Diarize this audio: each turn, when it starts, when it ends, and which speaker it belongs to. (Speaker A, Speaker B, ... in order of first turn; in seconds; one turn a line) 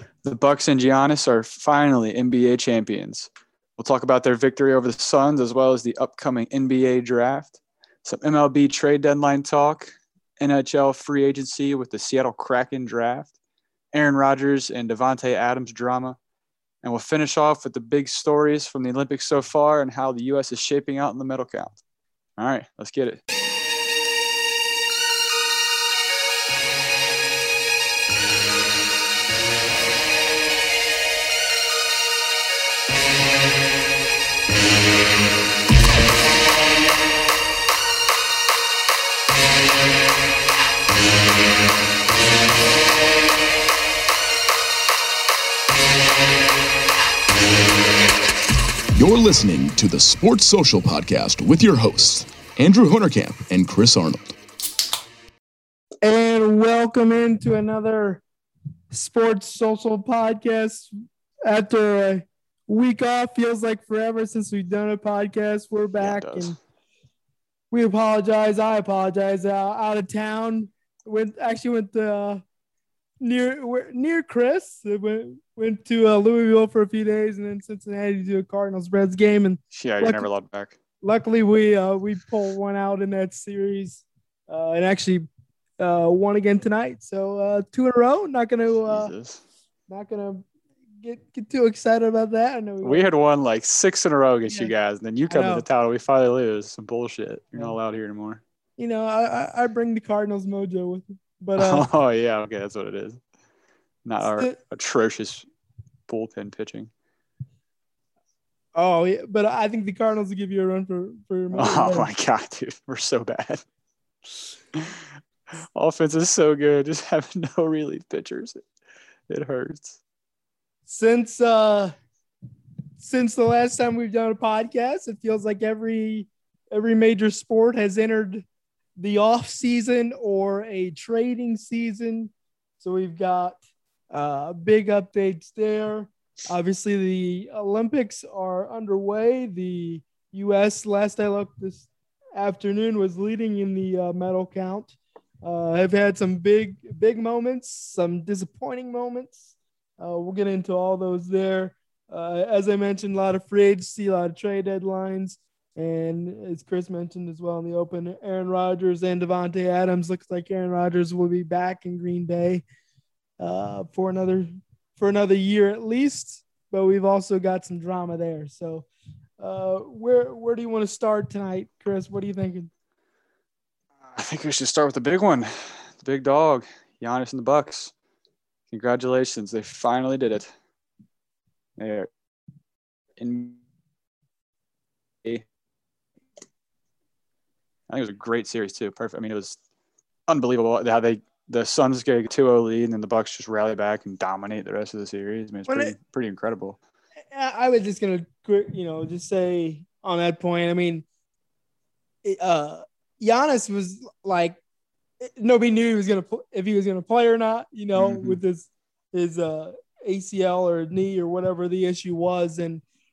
Speaker A: 0.2-13.3
Speaker A: 13.9-16.2
Speaker A: 16.8-21.8
Speaker A: 22.4-23.2
Speaker B: 49.0-54.3
Speaker C: 56.0-58.2
Speaker C: 58.9-60.9
Speaker C: 61.4-66.6
Speaker A: 66.0-66.6
Speaker C: 67.7-72.4
Speaker C: 73.2-80.3
Speaker A: 79.7-80.8
Speaker C: 81.0-85.3
Speaker C: 85.8-89.1
Speaker A: 88.8-89.4
Speaker C: 89.9-90.5
Speaker C: 91.0-93.1
Speaker A: 92.8-98.4
Speaker C: 95.3-95.6
Speaker C: 98.8-101.9
Speaker A: 101.6-103.2
Speaker A: 104.0-105.5
Speaker A: 106.1-106.9
Speaker C: 108.8-112.1
Speaker A: 111.5-113.6
Speaker A: 114.8-115.0
Speaker A: 115.8-118.6
Speaker A: 119.3-120.0
Speaker C: 120.9-121.9
Speaker C: 123.0-128.5
Speaker C: 129.0-133.6
Speaker C: 134.1-149.4
Speaker C: 150.0-162.6
Speaker C: 163.4-168.9
Speaker C: 169.4-172.7
Speaker A: 174.1-177.9
Speaker A: 178.7-180.5
Speaker A: 181.8-182.1
Speaker A: 183.2-183.6
Speaker A: 187.9-189.6
Speaker A: 190.3-196.8
Speaker C: 195.7-195.9
Speaker C: 197.3-201.1
Speaker C: 202.2-204.6
Speaker C: 205.2-212.8
Speaker A: 208.0-208.4